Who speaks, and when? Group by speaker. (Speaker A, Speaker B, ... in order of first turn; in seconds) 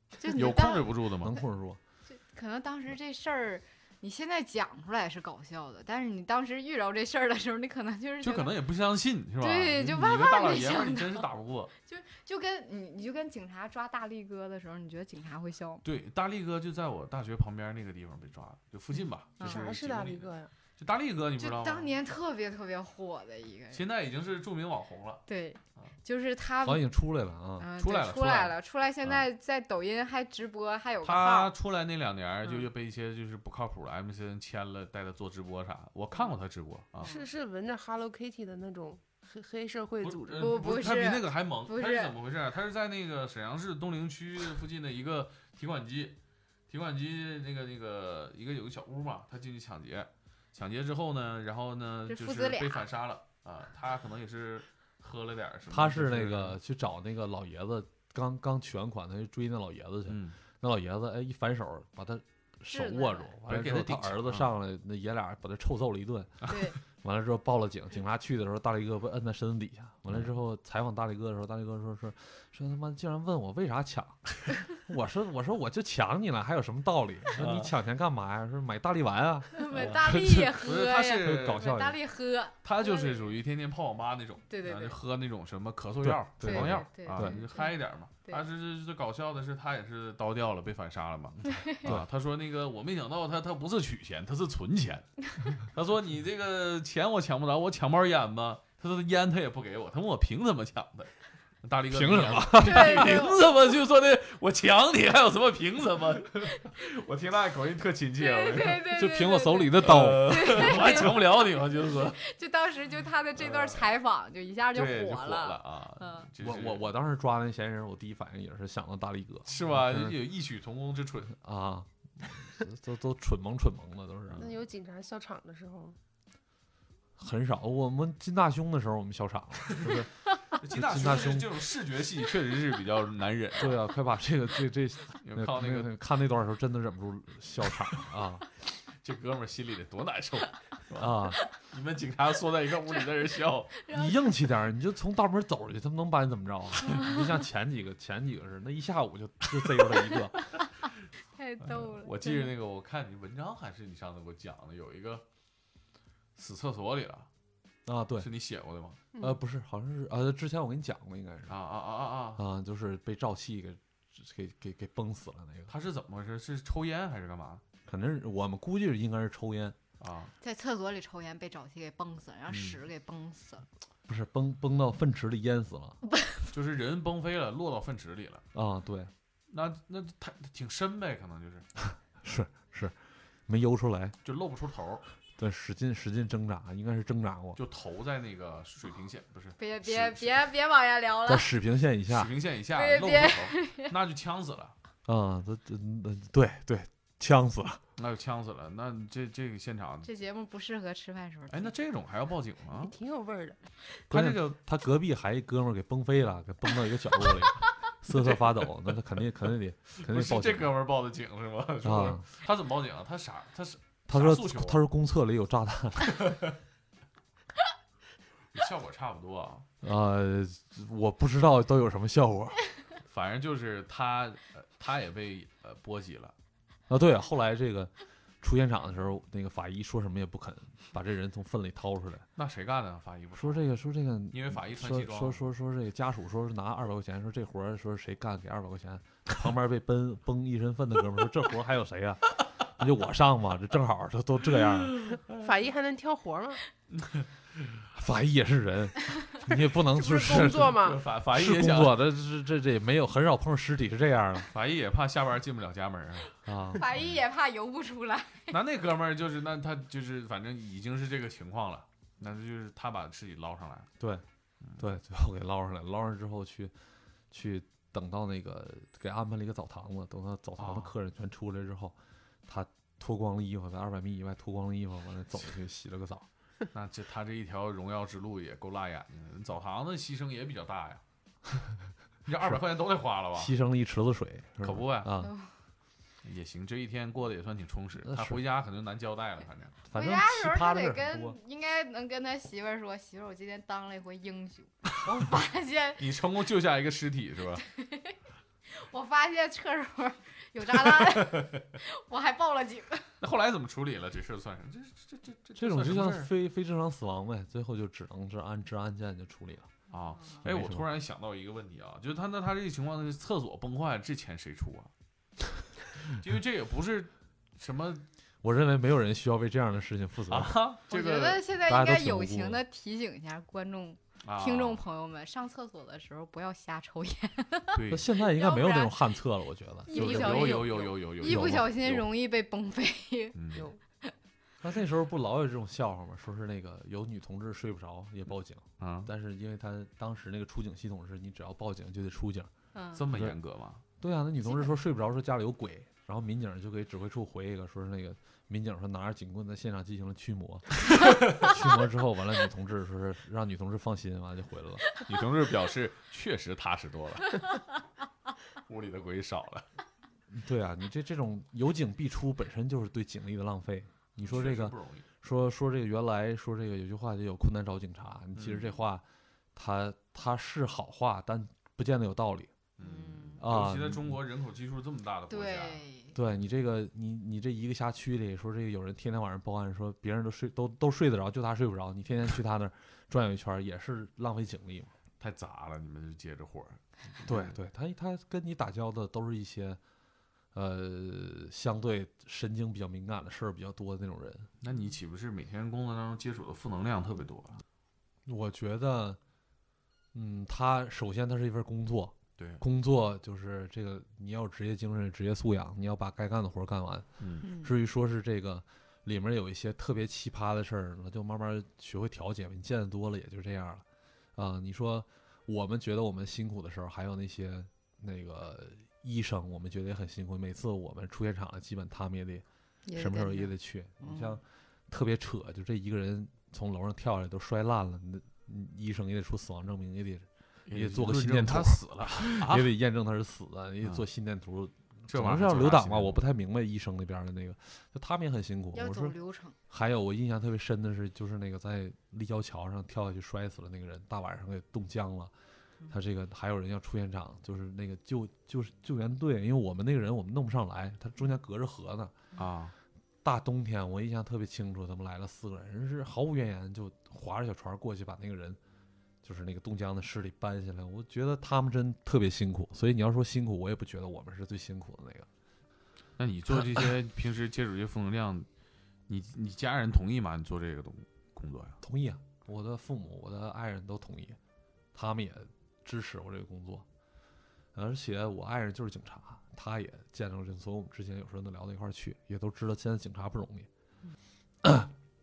Speaker A: 0.2-0.9, 2.1-8.6, 9.4-11.2, 11.8-15.8, 19.4-19.7, 21.4-23.8, 25.3-26.9, 27.6-31.5, 37.0-37.3, 40.4-42.1, 52.1-52.9, 62.7-63.3, 66.5-66.8, 79.5-83.3, 84.5-85.0, 86.4-88.4, 91.4-91.9, 102.6-103.4, 108.2-111.2, 112.1-116.3, 143.8-144.2, 151.3-152.5, 170.4-173.7, 189.6-191.5, 192.7-193.9, 200.0-201.7, 256.7-258.5, 285.2-285.5, 289.9-296.0, 297.7-298.1, 298.7-303.1, 320.9-329.1, 329.9-333.4, 342.7-343.0, 372.8-373.4, 375.3-376.1, 407.4-407.7, 422.9-424.4, 438.7-439.6
Speaker B: 0.3-1.3, 8.2-11.7, 15.8-21.9, 23.7-25.2, 27.8-29.2, 31.0-37.1, 40.0-46.2, 46.7-56.6, 60.1-60.4, 63.5-64.5, 77.3-77.7, 79.8-81.7, 82.6-101.1, 101.6-108.9, 109.7-112.2, 113.4-113.9, 114.7-116.9, 119.5-121.3, 129.7-130.0, 130.6-133.8, 135.2-135.9, 139.0-143.8, 151.7-155.2, 156.3-157.3, 158.2-159.0, 161.5-162.4, 165.7-167.6, 170.0-170.3, 172.5-172.8, 176.5-178.4, 179.5-181.7, 184.2-185.0, 187.6-190.4, 192.1-194.7, 198.0-200.1, 201.5-202.9, 204.1-204.5, 208.1-208.7, 209.9-214.8, 216.1-216.6, 218.5-219.7, 223.1-226.3, 232.4-233.6, 234.3-235.4, 245.0-245.4, 246.9-247.3, 250.8-252.0, 254.5-256.3, 258.5-263.9, 270.6-270.9, 276.7-281.0, 282.2-283.5, 284.6-285.1, 286.2-289.8, 296.0-297.6, 300.7-301.6, 303.2-306.3, 309.9-314.9, 316.0-318.0, 320.3-321.4, 324.2-324.8, 327.7-328.1, 329.9-332.0, 333.3-333.7, 338.8-339.1, 342.9-343.8, 350.9-351.4, 355.0-357.5, 358.7-359.6, 364.2-365.0, 368.3-368.7, 372.8-375.8, 385.2-387.5, 394.6-397.6, 407.2-407.5, 430.7-432.7, 435.1-436.2, 452.4-452.7, 466.2-468.5, 469.1-471.8
Speaker C: 1.2-1.8, 26.6-27.7, 55.7-80.5, 81.2-82.0, 86.0-87.4, 101.9-103.2, 108.9-111.0, 116.4-120.2, 121.4-124.5, 127.2-130.1, 130.6-131.6, 133.6-138.4, 140.9-141.4, 143.9-150.4, 157.8-158.3, 159.2-161.6, 162.3-165.7, 167.8-169.8, 174.1-176.0, 178.5-179.1, 182.2-182.9, 183.5-184.2, 185.4-187.6, 191.3-192.3, 195.1-197.8, 204.1-210.7, 211.8-212.2, 214.1-216.3, 219.8-222.6, 226.9-232.2, 233.3-245.0, 247.9-254.5, 256.4-256.9, 264.8-266.7, 267.3-271.9, 272.5-276.2, 283.3-285.3, 288.0-288.4, 289.9-291.4, 305.6-309.7, 310.4-310.9, 318.4-320.6, 321.6-322.6, 327.9-330.7, 331.2-331.7, 334.6-342.5, 343.1-343.4, 344.0-354.9, 360.3-369.0, 369.6-372.5, 373.4-374.2, 376.1-384.9, 387.2-389.8, 390.5-394.5, 398.2-399.2, 400.1-413.8, 414.4-422.4, 422.9-439.1, 439.7-445.3, 445.9-452.1, 453.2-458.6, 459.2-465.3, 471.8-474.4, 474.9-476.8, 477.7-483.7, 484.6-484.9
Speaker D: 19.4-20.5, 37.0-40.7, 124.4-126.0, 202.8-203.6, 245.3-246.6, 249.8-251.0